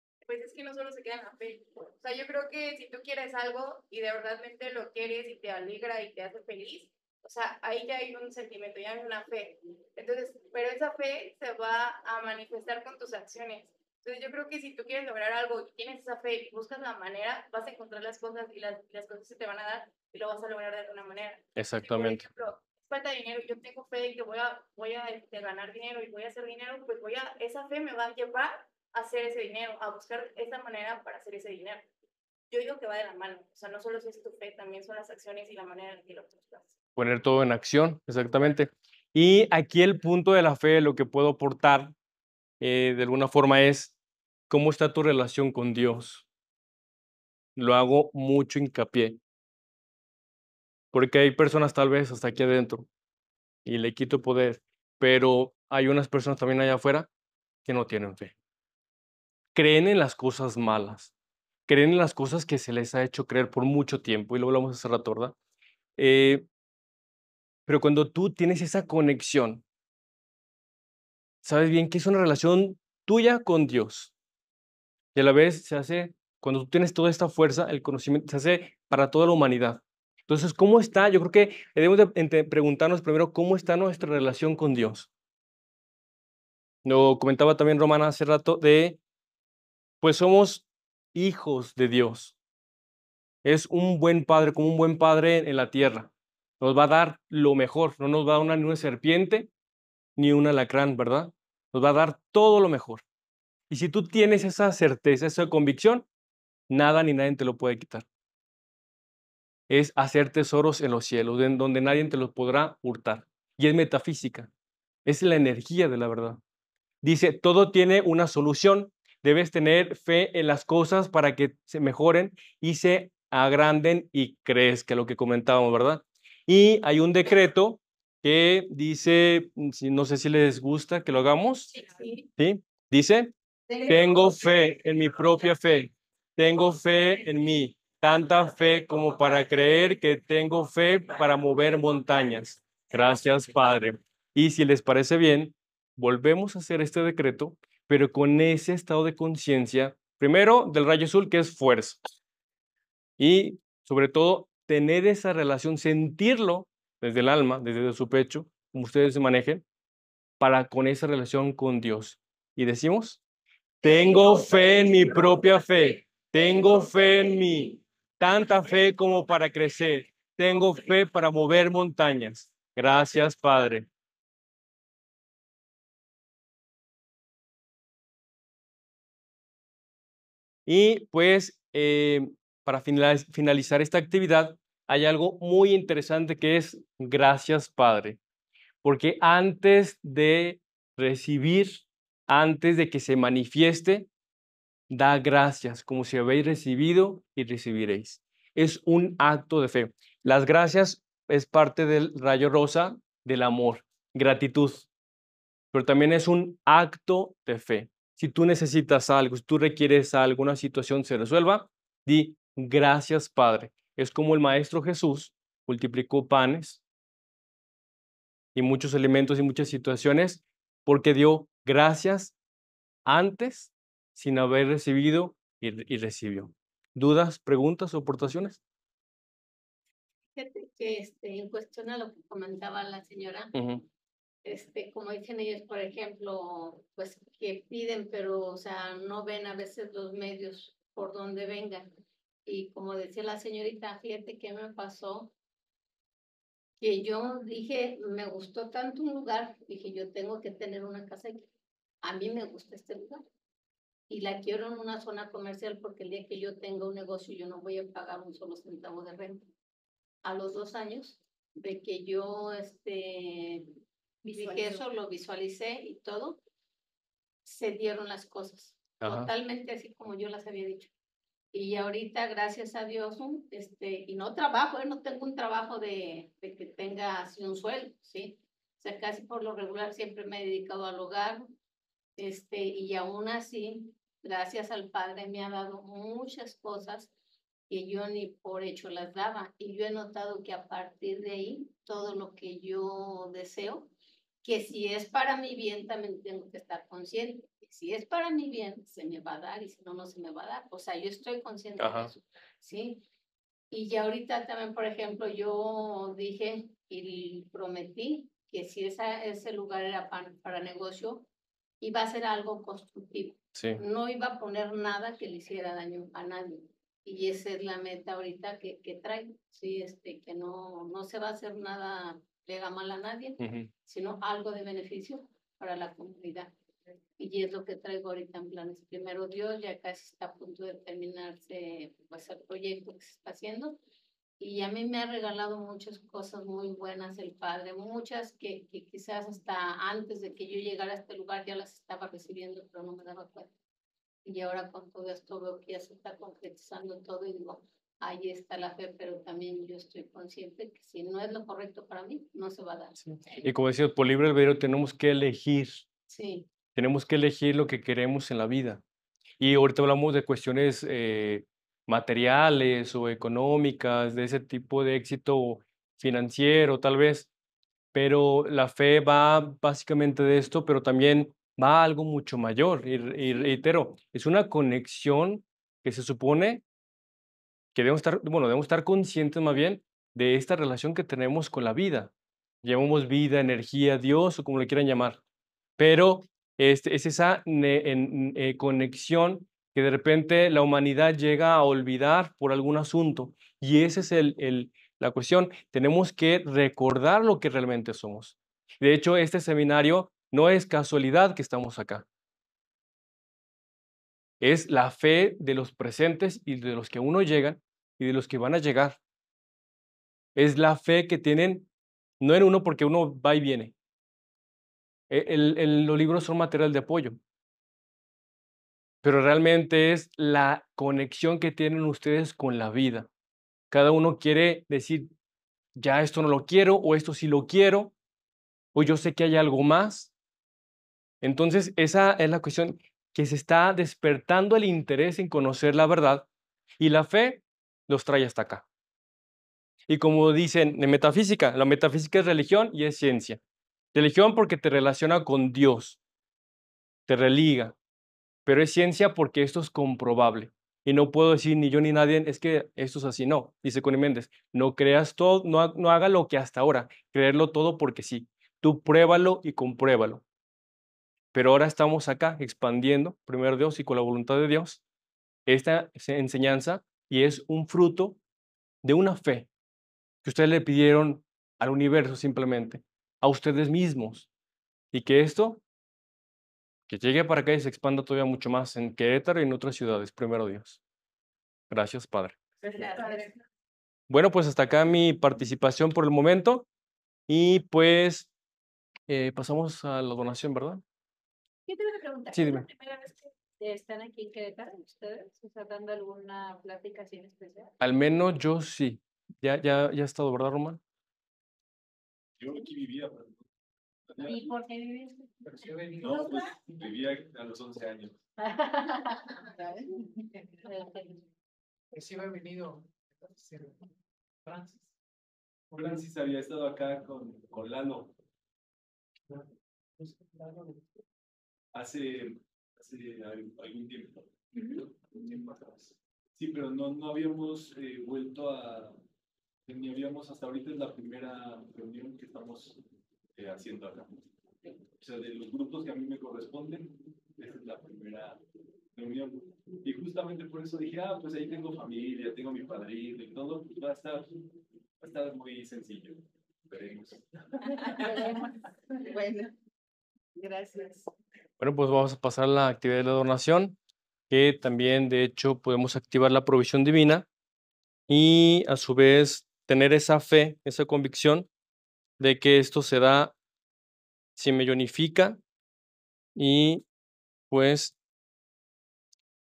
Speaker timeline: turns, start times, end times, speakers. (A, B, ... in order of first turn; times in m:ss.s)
0:00.2-0:31.8 A
0:21.6-0:22.3 B
0:32.5-0:36.7 A
0:37.0-0:41.9 B
0:42.6-0:43.9 B
0:44.5-0:46.2 B
0:47.6-0:49.2 B
0:50.9-0:52.9 B
0:53.6-0:57.1 B
0:57.6-0:58.3 B
0:59.5-1:01.1 B
1:01.7-1:05.3 B
1:06.0-1:06.4 B
1:07.7-1:09.6 B
1:11.4-1:14.1 B
1:15.1-1:25.1 B
1:26.8-1:29.0 B
1:30.0-1:32.4 B
1:33.4-1:39.5 B
1:40.2-1:43.0 B
1:43.7-1:46.1 B
1:46.7-1:48.0 B
1:49.7-1:54.5 B
1:55.0-1:56.4 B
1:57.0-2:11.7 B
2:12.4-2:13.3 B
2:13.8-2:32.0 B
2:33.2-2:39.6 B
2:40.4-2:43.2 B
2:43.8-2:53.9 B
3:00.6-3:08.2 B
3:08.8-3:14.1 B
3:14.9-3:24.9 B
3:25.7-3:36.8 B
3:38.5-3:42.3 B
3:43.0-3:48.6 B
3:50.3-3:53.5 C
3:53.5-3:53.8 B
3:54.4-4:01.9 C
4:02.4-4:05.3 C
4:06.8-4:11.5 C
4:12.0-4:13.2 C
4:14.1-4:19.5 C
4:20.2-4:23.7 C
4:24.2-4:24.8 D
4:24.2-4:26.4 C
4:27.4-4:30.9 C
4:29.0-4:29.3 B
4:31.5-4:41.5 C
4:42.2-4:47.1 C
4:47.7-4:53.9 C
4:54.4-5:03.0 C
5:01.8-5:02.1 B
5:03.7-5:11.2 C
5:11.8-5:26.5 C
5:13.5-5:13.8 B
5:23.4-5:23.7 B
5:27.2-5:33.8 C
5:34.4-5:43.5 C
5:44.2-5:53.4 C
5:53.0-5:55.8 B
5:56.1-5:56.5 C
5:56.7-5:58.8 B
5:59.4-6:07.3 B
6:07.9-6:16.6 B
6:17.7-6:22.1 B
6:22.6-6:25.2 B
6:25.8-6:42.0 B
6:44.4-6:49.0 B
6:50.3-6:51.7 B
6:52.2-6:53.7 B
6:55.1-6:57.2 B
6:59.0-7:03.1 B
7:03.7-7:05.1 B
7:05.8-7:07.9 B
7:08.7-7:10.1 B
7:11.2-7:16.2 B
7:16.8-7:18.6 B
7:19.9-7:23.4 B
7:23.9-7:26.0 B
7:27.1-7:27.8 B
7:28.4-7:40.2 B
7:41.3-7:44.8 B
7:45.5-7:48.2 B
7:48.8-7:49.5 B
7:50.2-7:54.3 B
7:54.9-7:55.6 B
7:56.9-8:00.8 B
8:01.7-8:02.4 B
8:02.8-8:03.2 D
8:04.1-8:06.6 B
8:07.3-8:08.3 B
8:09.1-8:10.8 B
8:11.7-8:17.7 D
8:12.3-8:12.7 B
8:17.8-8:20.8 B
8:22.4-8:23.4 E
8:24.1-8:24.5 E
8:24.2-8:26.4 D
8:25.4-8:26.8 F
8:26.0-8:28.2 E
8:28.4-8:29.4 D
8:30.6-8:31.2 D
8:31.9-8:33.9 F
8:34.4-8:34.9 F
8:35.7-8:36.0 F
8:35.7-8:38.1 E
8:39.3-8:41.0 F
8:41.7-8:49.0 E
8:49.6-8:52.8 E
8:53.3-8:58.4 E
8:58.9-9:04.3 E
9:05.0-9:07.7 E
9:07.8-9:09.5 G
9:10.4-9:11.1 G
9:11.6-9:13.8 B
9:14.3-9:17.3 B
9:18.1-9:21.5 B
9:22.2-9:23.3 B
9:24.4-9:25.4 B
9:26.4-9:26.8 B
9:27.5-9:28.0 B